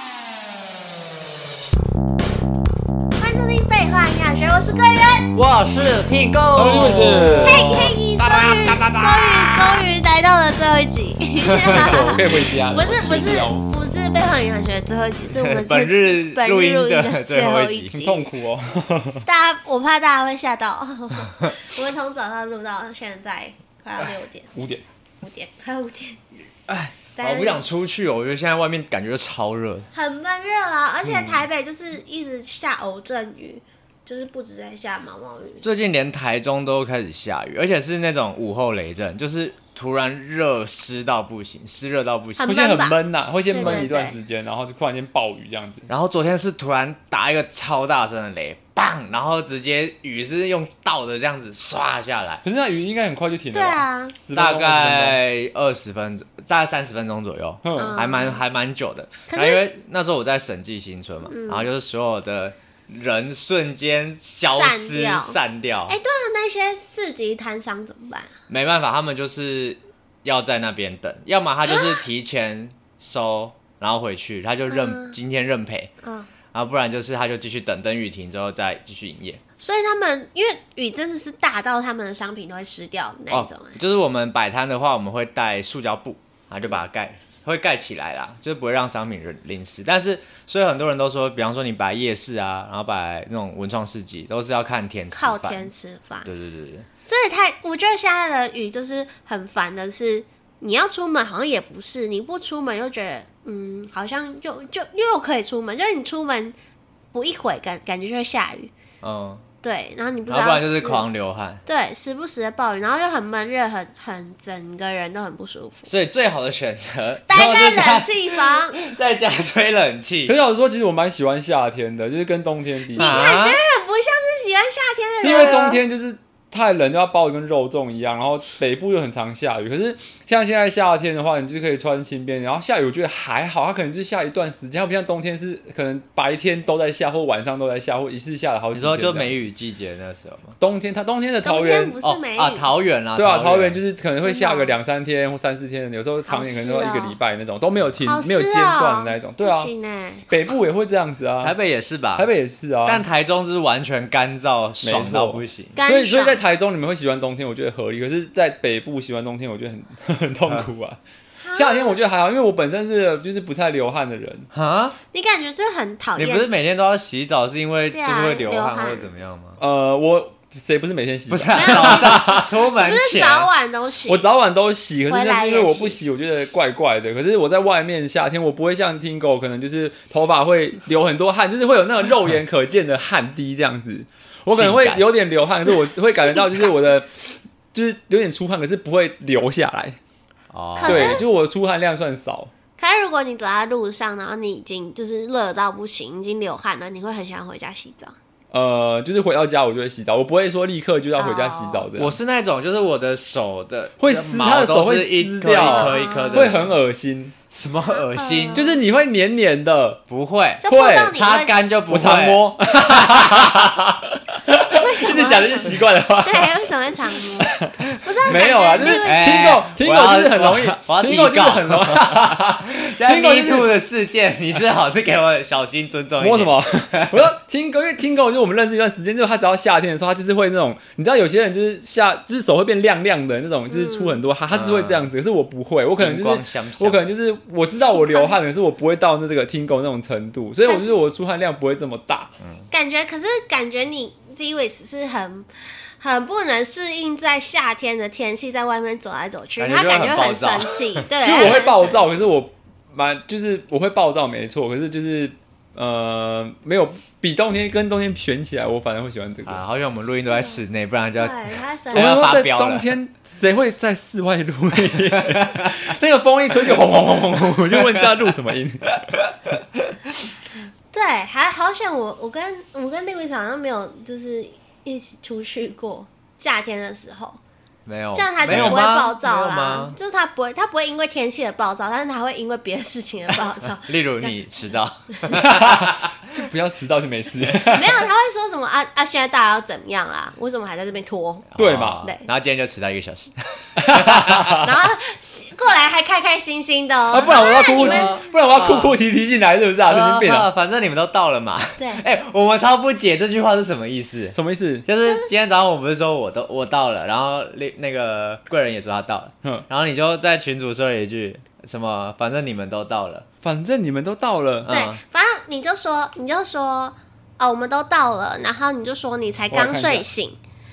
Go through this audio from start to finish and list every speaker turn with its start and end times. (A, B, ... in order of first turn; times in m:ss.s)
0:03.2-0:05.3 A
0:05.3-0:07.9 B
0:06.5-0:09.8 C
0:07.4-0:18.2 A
0:11.5-0:12.2 B
0:11.6-0:13.6 C
0:15.2-0:18.0 B
0:17.9-0:19.2 C
0:19.2-0:24.5 A
0:24.0-0:24.8 C
0:25.2-0:26.2 A
0:26.7-0:29.9 B
0:27.2-0:27.6 A
0:29.9-0:35.6 A
0:35.6-0:42.5 B
0:42.4-0:43.0 A
0:42.4-0:45.9 C
0:43.5-0:44.2 A
0:43.6-0:43.8 B
0:45.9-0:52.4 B
0:52.4-0:55.2 C
0:53.5-0:54.1 A
0:54.3-1:06.0 B
0:57.6-0:58.0 C
0:57.8-0:58.4 A
0:59.3-0:59.6 A
1:01.3-1:01.7 A
1:04.5-1:05.4 A
1:05.9-1:08.3 A
1:08.5-1:15.9 B
1:11.6-1:12.0 A
1:14.7-1:15.2 A
1:16.0-1:16.3 A
1:16.5-1:19.4 B
1:19.6-1:23.8 A
1:23.3-1:35.7 B
1:35.1-1:36.3 A
1:36.2-1:36.9 B
1:37.1-1:46.5 A
1:47.1-1:48.7 A
1:49.0-1:49.4 B
1:49.6-1:51.0 A
1:50.3-1:51.6 B
1:51.6-1:55.9 A
1:55.9-2:00.3 B
1:57.3-1:58.8 A
2:00.3-2:03.3 C
2:02.9-2:03.6 B
2:03.0-2:05.8 A
2:05.2-2:19.4 C
2:18.7-2:20.6 B
2:20.6-2:22.0 C
2:21.4-2:22.7 A
2:22.0-2:23.8 B
2:23.2-2:29.7 C
2:24.2-2:24.8 A
2:26.2-2:27.2 A
2:28.0-2:30.3 A
2:30.3-2:31.5 C
2:31.4-2:32.3 B
2:32.2-2:33.0 C
2:32.8-2:35.8 B
2:34.8-2:41.0 C
2:35.8-2:36.4 A
2:41.4-2:42.0 A
2:41.5-2:44.5 C
2:44.5-2:45.0 B
2:45.1-2:46.5 A
2:46.2-2:49.6 B
2:47.9-2:49.1 A
2:49.6-2:52.5 C
2:51.3-2:53.5 B
2:51.5-2:54.2 A
2:54.1-3:07.1 C
2:55.1-2:56.0 A
3:04.5-3:05.0 B
3:07.7-3:10.0 C
3:10.5-3:11.2 B
3:10.8-3:11.2 A
3:10.8-3:12.5 C
3:12.8-3:18.1 A
3:18.5-3:22.2 C
3:21.2-3:21.9 A
3:22.0-3:26.7 B
3:24.0-3:27.3 C
3:25.6-3:26.6 A
3:27.5-3:28.6 B
3:27.9-3:28.8 A
3:28.5-3:30.0 C
3:30.1-3:33.5 B
3:30.6-3:31.6 A
3:30.6-3:31.2 C
3:31.9-3:36.7 C
3:34.7-3:39.6 A
3:37.4-3:37.7 C
3:38.2-3:43.7 C
3:38.3-3:47.3 B
3:46.2-4:02.3 C
3:53.7-3:54.2 A
3:54.5-3:55.1 B
3:56.0-3:57.0 B
3:57.8-3:58.4 A
4:02.4-4:02.6 B
4:02.7-4:12.3 A
4:09.6-4:11.0 B
4:11.2-4:19.6 C
4:19.4-4:22.9 B
4:21.2-4:22.3 A
4:21.9-4:29.0 C
4:24.9-4:25.7 B
4:27.5-4:28.3 B
4:29.0-4:30.0 B
4:30.9-4:37.4 A
4:37.8-4:40.0 B
4:38.1-4:44.4 A
4:38.4-4:38.9 C
4:43.8-4:46.2 B
4:45.3-4:48.0 C
4:47.7-4:51.5 A
4:51.5-4:54.6 B
4:51.6-4:52.0 C
4:52.0-4:52.3 A
4:53.8-4:54.7 C
4:54.5-4:58.2 A
4:57.1-5:00.5 C
4:57.3-4:59.0 B
4:59.9-5:13.2 B
5:01.8-5:02.0 A
5:04.3-5:04.8 C
5:05.0-5:05.3 A
5:13.4-5:14.7 C
5:14.6-5:15.0 B
5:14.7-5:20.4 A
5:19.5-5:20.0 C